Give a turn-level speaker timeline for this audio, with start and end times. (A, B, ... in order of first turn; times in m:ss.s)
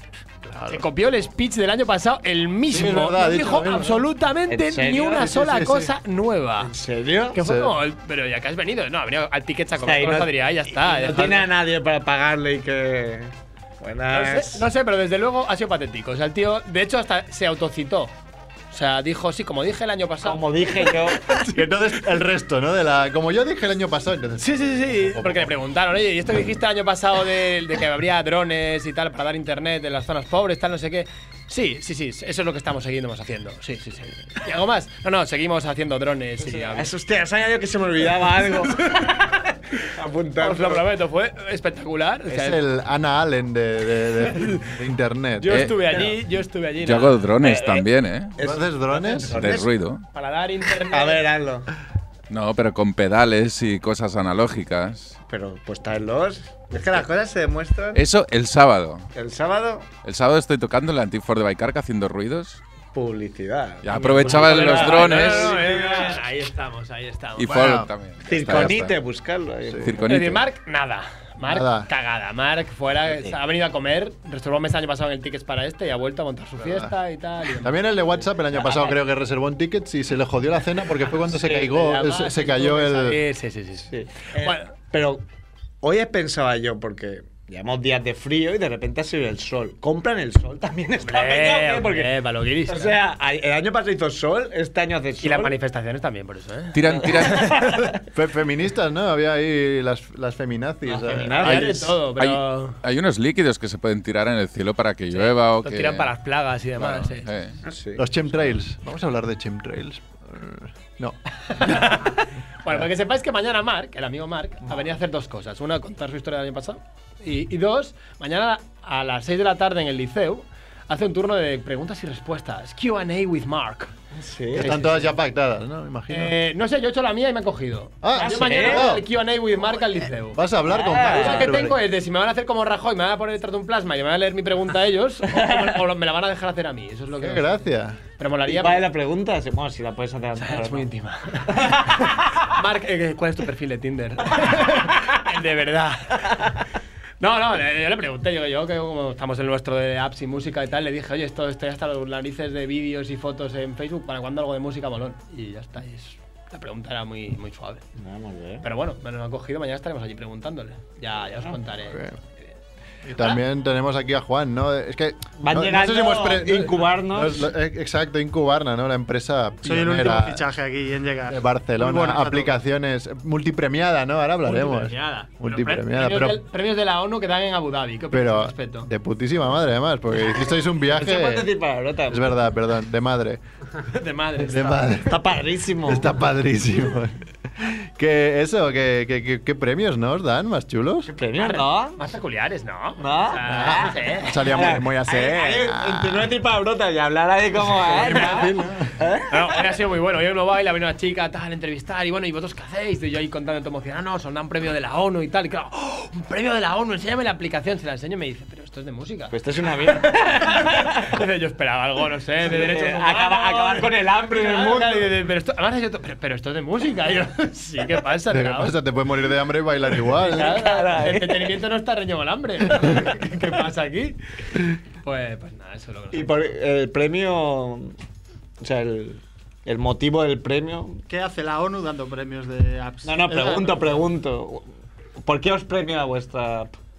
0:00.6-0:06.7 A
0:02.7-0:04.0 B
0:04.5-0:05.3 C
0:05.2-0:05.9 B
0:06.6-0:07.4 C
0:07.3-0:11.5 A
0:07.4-0:07.7 B
0:09.8-0:14.7 C
0:14.1-0:18.1 A
0:18.7-0:20.9 A
0:20.2-0:21.3 C
0:21.5-0:25.5 B
0:24.4-0:36.9 A
0:36.4-0:40.8 C
0:40.4-0:42.6 A
0:42.3-0:45.7 B
0:45.4-0:47.3 A
0:45.5-0:45.8 D
0:45.9-0:46.2 C
0:46.8-0:48.4 D
0:47.4-0:49.7 C
0:48.4-0:49.6 B
0:49.3-0:50.0 D
0:50.1-0:51.2 A
0:50.9-0:51.7 C
0:52.3-0:55.2 D
0:55.2-0:58.0 C
0:58.0-0:59.1 D
0:59.1-0:59.9 C
1:00.0-1:02.6 D
1:02.9-1:06.2 C
1:03.8-1:05.6 D
1:04.0-1:07.8 A
1:07.4-1:09.0 D
1:07.5-1:07.9 B
1:08.2-1:10.0 C
1:08.5-1:08.8 B
1:09.7-1:10.1 B
1:09.8-1:10.5 D
1:10.0-1:17.8 A
1:11.4-1:11.9 B
1:16.6-1:16.9 B
1:17.6-1:23.2 B
1:21.4-1:21.7 C
1:21.6-1:24.7 A
1:23.9-1:25.2 C
1:25.8-1:32.1 C
1:31.0-1:33.0 A
1:32.7-1:35.6 C
1:35.2-1:37.6 A
1:36.7-1:37.7 D
1:37.0-1:37.9 C
1:38.1-1:42.4 B
1:40.9-1:42.0 C
1:41.2-1:42.8 A
1:42.8-1:46.1 D
1:45.1-1:47.3 A
1:46.8-1:47.6 D
1:47.6-1:48.1 C
1:48.0-1:52.0 B
1:51.5-2:03.9 A
2:04.1-2:04.9 C
2:04.6-2:05.1 A
2:04.6-2:06.3 B
2:06.1-2:17.5 A
2:08.0-2:09.0 B
2:08.2-2:09.0 C
2:10.3-2:11.8 B
2:10.7-2:11.6 C
2:15.4-2:15.7 C
2:17.2-2:18.0 B
2:18.1-2:18.9 A
2:18.4-2:20.9 C
2:20.4-2:26.4 A
2:21.5-2:22.0 C
2:27.2-2:37.8 A
2:38.0-2:38.6 C
2:38.6-2:42.0 A
2:41.9-2:42.2 B
2:43.1-2:50.5 B
2:45.4-2:47.5 C
2:49.6-2:52.6 E
2:51.3-2:56.4 B
2:54.5-2:58.9 A
2:58.1-3:01.5 B
3:00.8-3:02.4 C
3:02.1-3:03.4 B
3:03.8-3:05.1 A
3:04.4-3:05.2 B
3:05.1-3:06.1 C
3:05.8-3:11.1 B
3:11.1-3:12.0 C
3:11.4-3:14.7 A
3:13.0-3:19.6 C
3:13.5-3:16.3 B
3:17.8-3:18.9 B
3:17.9-3:18.6 A
3:19.3-3:29.3 A
3:29.3-3:31.1 C
3:30.4-3:38.8 A
3:32.4-3:35.1 C
3:38.3-3:40.6 B
3:40.2-3:44.2 A
3:40.4-3:41.6 C
3:45.0-3:46.4 A
3:46.1-3:47.9 C
3:48.6-3:51.0 C
3:51.1-3:53.9 E
3:53.0-3:54.6 C
3:55.2-3:56.7 C